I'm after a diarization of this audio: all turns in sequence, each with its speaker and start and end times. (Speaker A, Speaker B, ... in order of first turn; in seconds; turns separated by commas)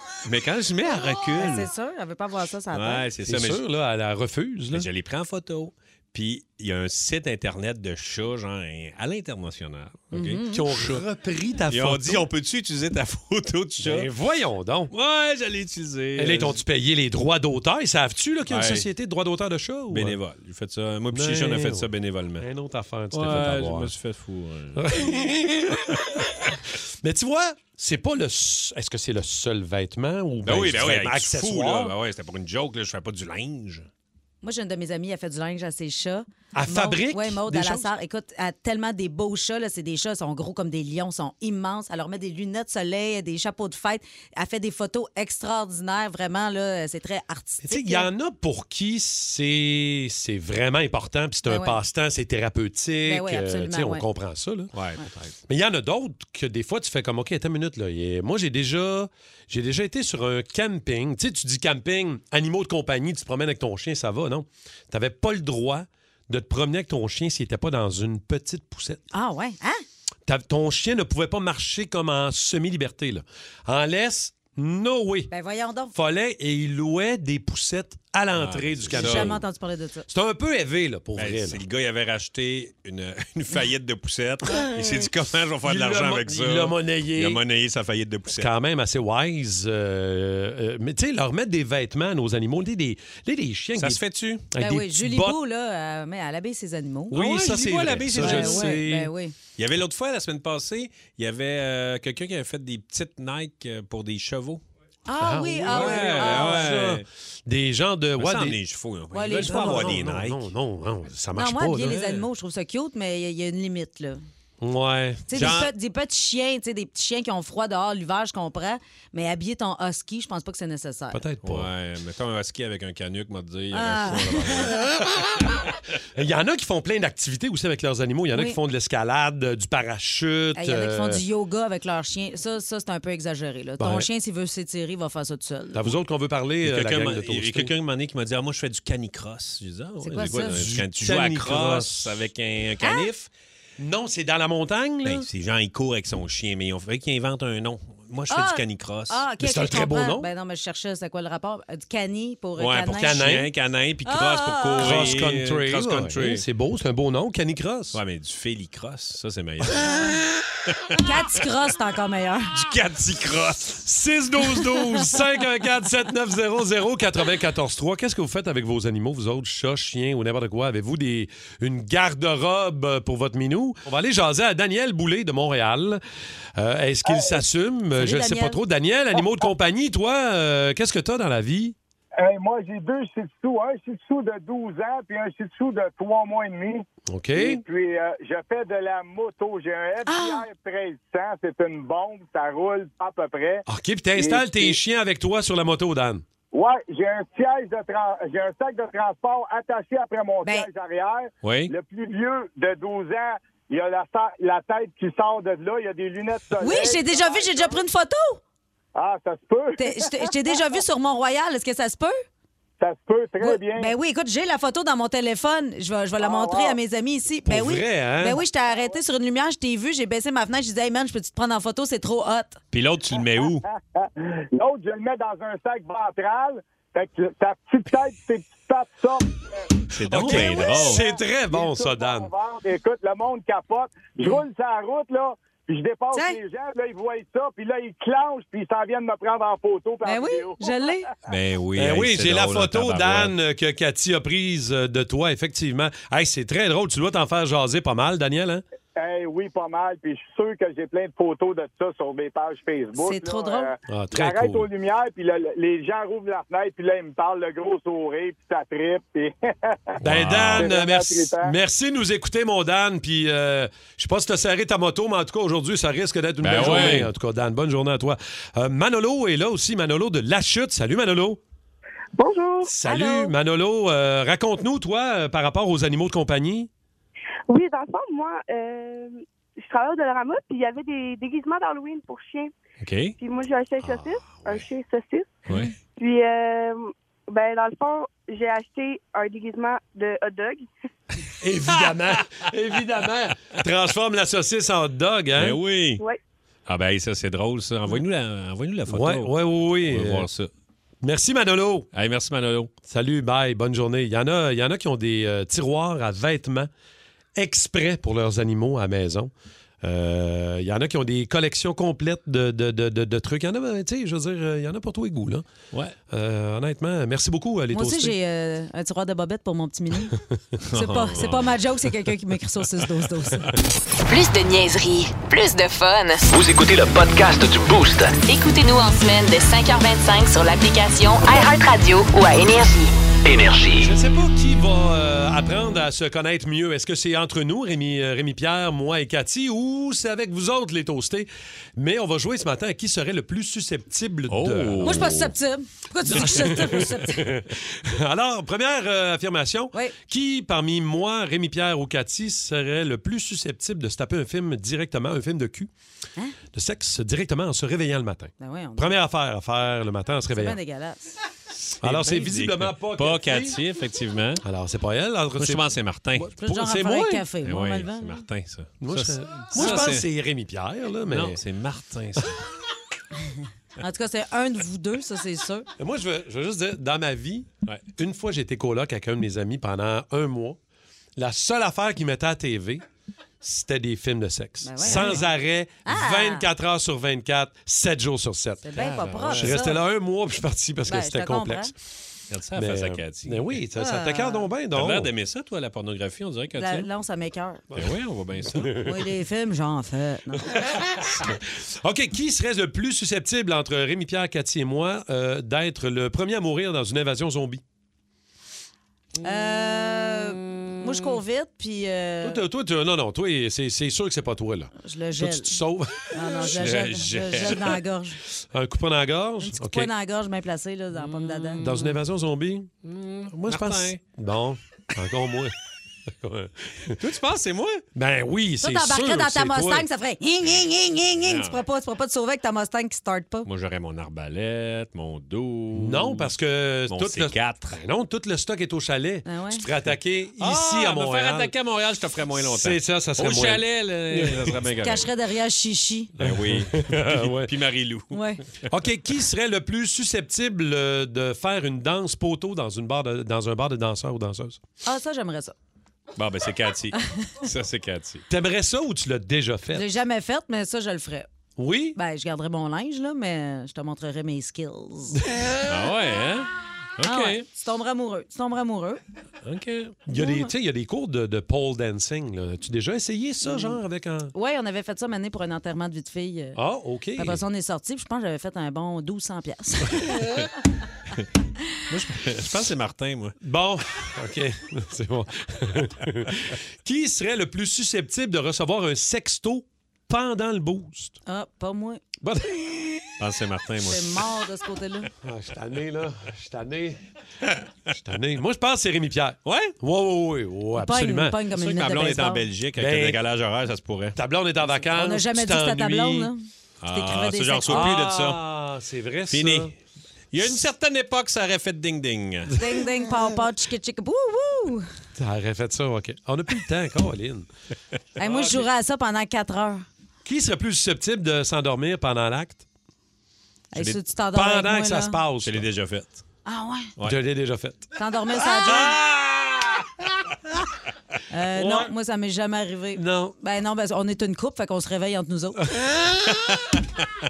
Speaker A: 0.2-1.7, Speaker B: 1.4-3.0, Speaker A: 2.7-3.6, Speaker C: 3.2-4.9, Speaker A: 4.7-11.0, Speaker B: 10.1-10.7, Speaker C: 10.5-12.2, Speaker A: 11.7-14.1, Speaker C: 13.8-14.9, Speaker A: 14.9-16.6, Speaker C: 16.1-20.2, Speaker A: 18.5-18.9, Speaker A: 19.9-22.4, Speaker C: 21.1-23.9, Speaker A: 23.1-25.2, Speaker C: 24.7-31.9, Speaker A: 30.4-33.9, Speaker B: 34.4-48.1, Speaker C: 36.5-37.9, Speaker C: 47.6-54.7, Speaker B: 51.5-51.8, Speaker B: 53.0-54.0, Speaker A: 54.7-55.3, Speaker C: 55.5-69.0, Speaker B: 69.1-69.8, Speaker C: 70.2-75.3, Speaker B: 75.3-75.9, Speaker C: 75.9-79.4, Speaker A: 78.3-79.4, Speaker B: 78.9-80.0, Speaker C: 80.1-81.6, Speaker A: 81.2-88.5, Speaker C: 85.6-87.4, Speaker C: 88.4-95.4, Speaker A: 93.7-94.4, Speaker B: 94.6-97.2, Speaker C: 97.1-99.1, Speaker A: 97.1-98.7, Speaker B: 98.1-99.3, Speaker A: 99.6-104.6, Speaker B: 105.1-106.7, Speaker C: 105.2-108.6, Speaker A: 105.7-107.0, Speaker A: 108.2-110.5, Speaker B: 109.1-109.9, Speaker C: 109.3-112.2, Speaker B: 111.3-114.2, Speaker C: 114.6-115.6, Speaker B: 115.3-121.2, Speaker A: 115.3-115.7, Speaker C: 121.1-121.7, Speaker A: 121.4-124.9, Speaker B: 123.7-124.8, Speaker C: 124.8-125.5, Speaker C: 126.2-131.2, Speaker B: 130.5-135.9, Speaker C: 133.8-134.1, Speaker C: 135.7-137.7, Speaker A: 136.6-143.3, Speaker B: 140.0-140.6, Speaker C: 140.2-142.2, Speaker B: 142.8-143.1, Speaker C: 143.8-145.3, Speaker A: 145.0-149.2, Speaker B: 148.3-153.3, Speaker C: 149.4-150.2, Speaker A: 152.6-156.4, Speaker C: 152.9-153.5, Speaker B: 154.1-155.1, Speaker C: 154.8-158.0, Speaker A: 157.9-161.0, Speaker B: 159.8-160.2, Speaker B: 161.0-162.6, Speaker A: 162.5-163.9, Speaker C: 163.8-176.0, Speaker A: 164.4-165.1, Speaker C: 176.6-181.8, Speaker D: 177.1-177.4, Speaker B: 178.0-178.6, Speaker D: 182.2-194.8, Speaker C: 187.1-187.6, Speaker B: 190.1-190.4, Speaker C: 193.7-196.2, Speaker D: 196.5-207.8, Speaker A: 201.4-201.7, Speaker B: 206.6-208.4, Speaker D: 208.9-210.6, Speaker B: 209.8-212.2, Speaker D: 212.8-213.9, Speaker B: 213.4-222.6, Speaker D: 216.2-216.8, Speaker C: 217.4-218.4, Speaker D: 218.7-219.0, Speaker A: 222.7-223.7, Speaker D: 223.1-229.7, Speaker A: 229.9-231.1, Speaker C: 230.1-232.3, Speaker D: 230.2-240.9, Speaker B: 240.0-241.1, Speaker A: 241.3-243.3, Speaker C: 241.8-248.6, Speaker D: 248.9-260.0, Speaker B: 253.0-253.7, Speaker C: 253.9-254.7, Speaker A: 260.0-260.7, Speaker C: 260.0-271.4, Speaker D: 260.5-261.5, Speaker A: 266.4-267.1, Speaker E: 272.1-272.7, Speaker C: 272.6-276.7, Speaker B: 272.8-273.3, Speaker E: 277.5-282.5, Speaker A: 282.8-283.1, Speaker E: 283.2-285.4, Speaker C: 283.8-284.7, Speaker A: 285.5-285.7, Speaker E: 285.9-290.7, Speaker C: 291.4-295.6, Speaker A: 291.7-292.2, Speaker A: 295.3-296.0, Speaker A: 296.7-300.5, Speaker C: 298.9-300.3, Speaker C: 301.0-301.9, Speaker A: 301.9-302.7, Speaker C: 302.9-306.7, Speaker C: 307.3-309.3, Speaker C: 309.8-315.4, Speaker C: 316.1-318.1, Speaker B: 317.7-320.2, Speaker A: 320.7-321.5, Speaker B: 320.7-323.5, Speaker F: 324.1-326.3, Speaker G: 326.3-328.2, Speaker F: 328.2-332.9, Speaker G: 333.2-333.9, Speaker C: 333.8-345.1, Speaker A: 344.3-345.3, Speaker B: 344.8-347.3, Speaker C: 346.1-355.7, Speaker A: 346.2-346.4, Speaker C: 356.5-360.6, Speaker B: 358.4-358.9, Speaker B: 360.3-361.0, Speaker A: 361.5-364.4, Speaker C: 361.8-363.6, Speaker C: 364.4-367.2, Speaker A: 365.4-366.3, Speaker B: 366.4-368.2, Speaker A: 367.4-370.1, Speaker C: 368.8-371.4, Speaker A: 371.1-372.4, Speaker B: 373.8-375.7, Speaker C: 375.8-380.6, Speaker C: 381.1-382.8, Speaker C: 383.4-388.6, Speaker B: 384.6-385.2, Speaker A: 384.9-385.2, Speaker B: 385.8-386.5, Speaker B: 388.6-389.8, Speaker A: 388.7-389.6, Speaker C: 389.3-391.7, Speaker B: 390.9-391.7, Speaker A: 392.3-393.6, Speaker C: 392.5-395.1, Speaker B: 393.8-394.5, Speaker A: 394.7-396.9, Speaker B: 396.6-397.6, Speaker C: 397.7-398.0, Speaker A: 397.7-398.8, Speaker C: 398.5-399.0, Speaker B: 398.8-400.6, Speaker C: 400.5-407.6, Speaker B: 409.2-412.4, Speaker C: 412.2-416.8, Speaker B: 414.8-415.6, Speaker B: 416.1-418.2, Speaker A: 416.4-417.6, Speaker C: 418.4-419.9, Speaker B: 419.4-421.6, Speaker A: 421.1-421.7, Speaker C: 421.6-425.5, Speaker A: 423.4-424.0, Speaker C: 426.2-427.0, Speaker A: 426.9-427.8, Speaker C: 427.9-429.9, Speaker B: 428.6-433.5, Speaker A: 431.1-431.6, Speaker A: 433.4-436.3, Speaker C: 435.7-441.5, Speaker A: 436.9-437.8, Speaker B: 439.2-439.6, Speaker A: 440.4-445.1, Speaker C: 442.4-444.6, Speaker B: 444.8-446.1, Speaker A: 446.2-448.2, Speaker C: 446.2-447.5, Speaker B: 448.1-448.4, Speaker C: 448.7-454.6, Speaker B: 454.8-455.5, Speaker A: 456.1-458.2, Speaker C: 458.3-459.9, Speaker B: 459.7-461.3, Speaker C: 461.6-461.9, Speaker B: 461.9-465.2, Speaker C: 465.2-465.6, Speaker A: 465.6-467.4, Speaker B: 467.0-469.0, Speaker A: 469.4-469.9, Speaker C: 470.0-474.3, Speaker B: 470.1-470.5, Speaker B: 473.4-473.8, Speaker B: 474.3-476.6, Speaker C: 476.6-477.4, Speaker B: 477.2-480.2, Speaker A: 481.9-483.4, Speaker C: 483.4-491.2, Speaker B: 491.2-492.0, Speaker C: 492.2-493.1, Speaker A: 493.2-494.2, Speaker B: 493.8-495.1, Speaker C: 495.2-497.0, Speaker C: 498.0-501.4, Speaker A: 499.4-499.7, Speaker B: 500.8-502.4, Speaker A: 501.5-504.1, Speaker C: 502.8-503.2, Speaker C: 504.1-506.3, Speaker B: 504.7-507.9, Speaker A: 506.8-508.4, Speaker C: 507.7-509.7, Speaker A: 509.3-509.7, Speaker A: 510.3-512.5, Speaker B: 512.5-514.9, Speaker C: 515.1-517.5, Speaker C: 518.2-518.7, Speaker B: 518.2-519.9, Speaker C: 520.2-522.6, Speaker B: 523.7-525.2, Speaker C: 524.3-525.6, Speaker A: 525.4-526.2, Speaker B: 526.4-526.9, Speaker C: 527.0-527.9, Speaker B: 528.0-529.0, Speaker A: 528.4-529.9, Speaker B: 531.3-535.6, Speaker C: 531.5-531.9, Speaker C: 533.0-533.3, Speaker C: 535.7-536.6, Speaker A: 536.2-536.8